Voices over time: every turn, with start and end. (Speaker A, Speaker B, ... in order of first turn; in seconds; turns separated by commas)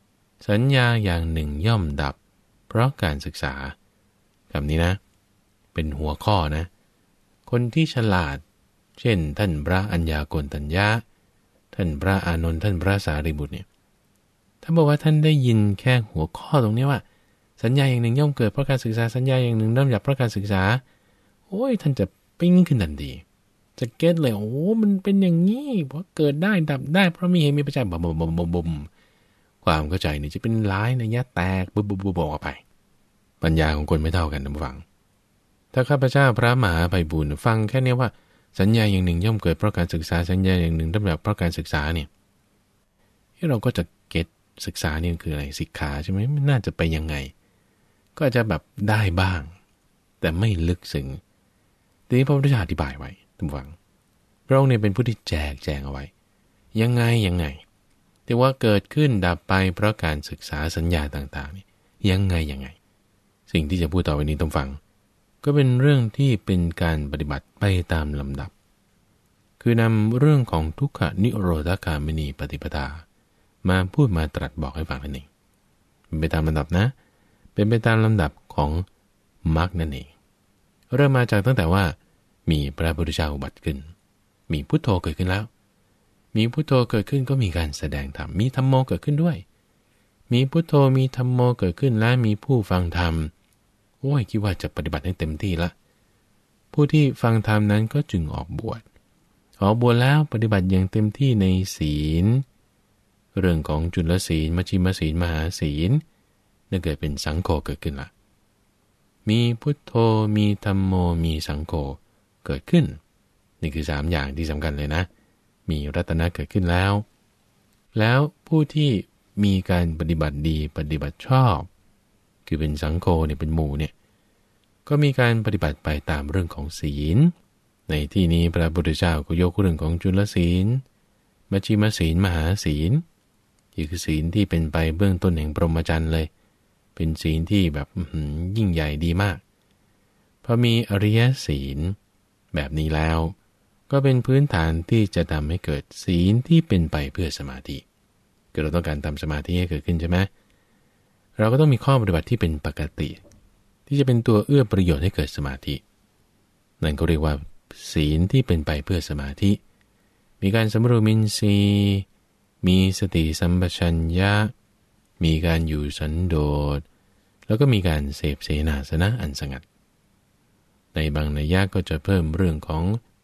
Speaker A: 0.4-2.2, Speaker A: 2.7-3.7, Speaker A: 4.5-5.0, Speaker A: 5.7-6.7, Speaker A: 7.5-8.4, Speaker A: 9.0-11.0, Speaker A: 11.7-13.7, Speaker A: 14.6-17.0, Speaker A: 17.6-20.8, Speaker A: 21.5-23.2, Speaker A: 23.8-28.9, Speaker A: 29.6-32.6, Speaker A: 33.4-34.8, Speaker A: 35.7-42.1, Speaker A: 43.4-47.3, Speaker A: 48.1-49.5, Speaker A: 50.2-51.2, Speaker A: 52.1-53.8, Speaker A: 54.5-56.1, Speaker A: 56.7-57.6, Speaker A: 58.3-62.8, Speaker A: 63.5-64.8, Speaker A: 65.4-68.5, Speaker A: 69.6-73.0, Speaker A: 73.6-75.3, Speaker A: 76.1-76.9, Speaker A: 77.5-78.8, Speaker A: 79.4-80.1, Speaker A: 80.9-82.0, Speaker A: 82.5-83.9, Speaker A: 84.5-85.5, Speaker A: 86.3-89.4, Speaker A: 90.3-93.3, Speaker A: 94.0-95.7, Speaker A: 96.7-98.8, Speaker A: 99.6-102.4, Speaker A: 103.3-106.0, Speaker A: 106.7-108.1, Speaker A: 109.2-113.0, Speaker A: 113.6-115.1, Speaker A: 115.7-117.0, Speaker A: 117.9-121.7, Speaker A: 122.5-123.9, Speaker A: 124.8-127.3, Speaker A: 127.9-130.8, Speaker A: 131.5-133.0, Speaker A: 133.8-136.3, Speaker A: 136.9-139.4, Speaker A: 140.4-142.0, Speaker A: 142.5-143.3, Speaker A: 143.9-147.8, Speaker A: 148.5-150.3, Speaker A: 151.4-153.2, Speaker A: 153.9-155.8, Speaker A: 156.8-159.6, Speaker A: 160.4-162.1, Speaker A: 162.6-164.5, Speaker A: 165.2-166.8, Speaker A: 167.5-169.6, Speaker A: 170.9-173.0